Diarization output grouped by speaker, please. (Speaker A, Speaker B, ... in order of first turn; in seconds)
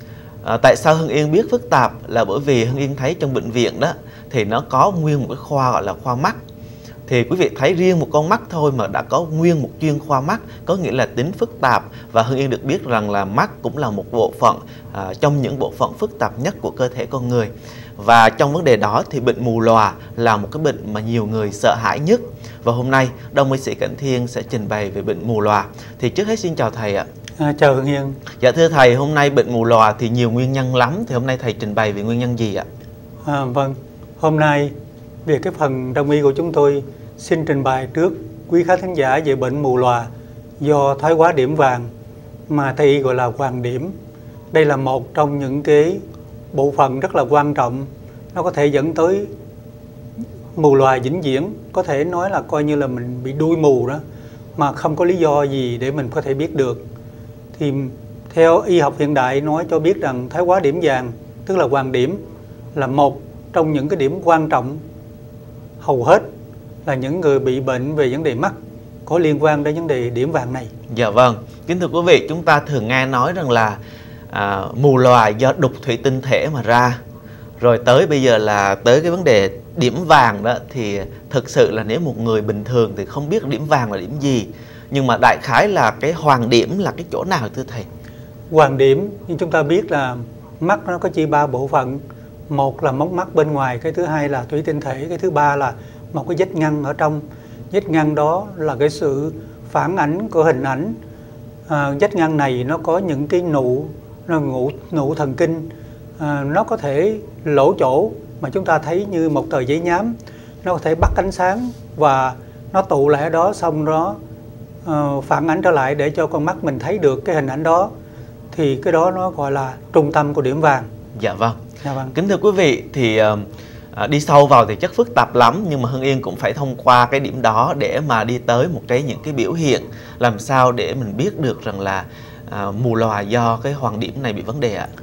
Speaker A: 0.4-6.4, 7.1-27.1, 28.4-32.6, 70.9-73.8, 74.3-77.0, 77.6-87.9, 121.1-121.6, 122.1-134.9
Speaker B: 27.4-28.2, 33.2-40.1, 40.6-41.9, 42.5-43.9, 44.5-49.3, 50.5-54.0, 54.5-56.8, 57.5-62.2, 62.7-64.8, 65.8-66.3, 66.8-70.7, 88.5-101.0, 101.7-114.2, 114.8-117.9, 118.5-120.9, 121.8-122.1